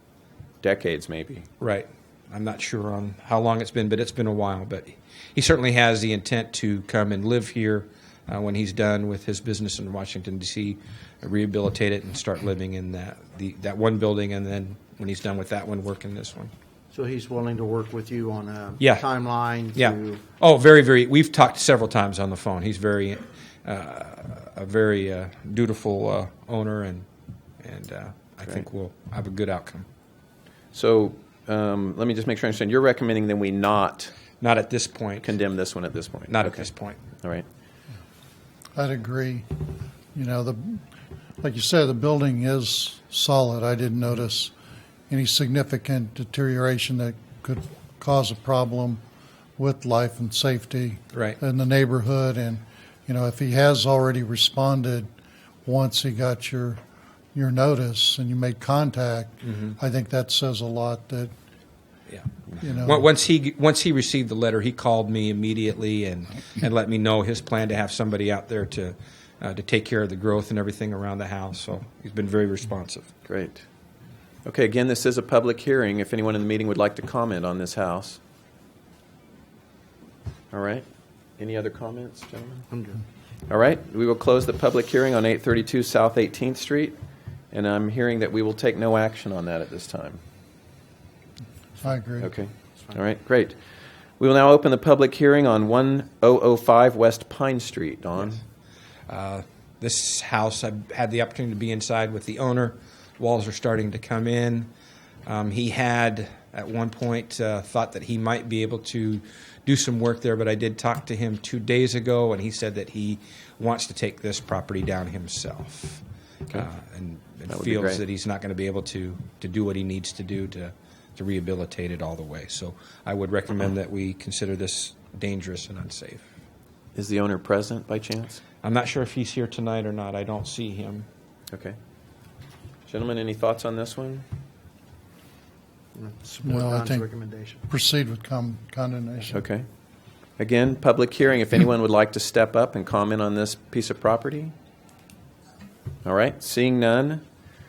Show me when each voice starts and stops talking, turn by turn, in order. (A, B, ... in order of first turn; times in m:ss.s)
0:00.6-0:01.5 A
0:01.6-0:16.5 B
0:16.9-0:20.2 C
0:18.8-0:19.0 B
0:19.7-0:27.1 B
0:27.6-0:29.9 B
0:30.7-0:34.1 A
0:34.4-0:35.3 B
0:35.2-0:36.7 A
0:36.3-0:37.0 B
0:38.8-0:39.5 D
0:40.1-0:40.8 D
0:41.4-0:44.5 D
0:45.1-0:49.0 D
0:49.6-0:55.1 D
0:51.1-0:51.4 B
0:55.6-0:56.8 D
0:57.3-1:01.3 D
0:59.4-0:59.7 B
1:02.1-1:13.1 B
1:02.6-1:03.0 D
1:13.2-1:13.6 A
1:14.4-1:18.2 A
1:20.5-1:20.8 A
1:21.4-1:22.6 A
1:22.7-1:23.0 C
1:23.5-1:27.0 A
1:27.5-1:30.2 A
1:31.8-1:32.3 D
1:32.2-1:33.6 A
1:34.2-1:38.4 A
1:39.1-1:44.7 B
1:45.2-2:06.2 B
1:57.5-1:58.0 A
2:07.0-2:08.4 A
2:08.6-2:11.1 B
2:11.5-2:11.8 A
2:12.9-2:14.2 A
2:15.9-2:17.6 C
2:16.4-2:17.1 D
2:17.7-2:19.4 D
2:19.3-2:19.7 A
2:20.4-2:24.5 A
2:26.0-2:27.2 A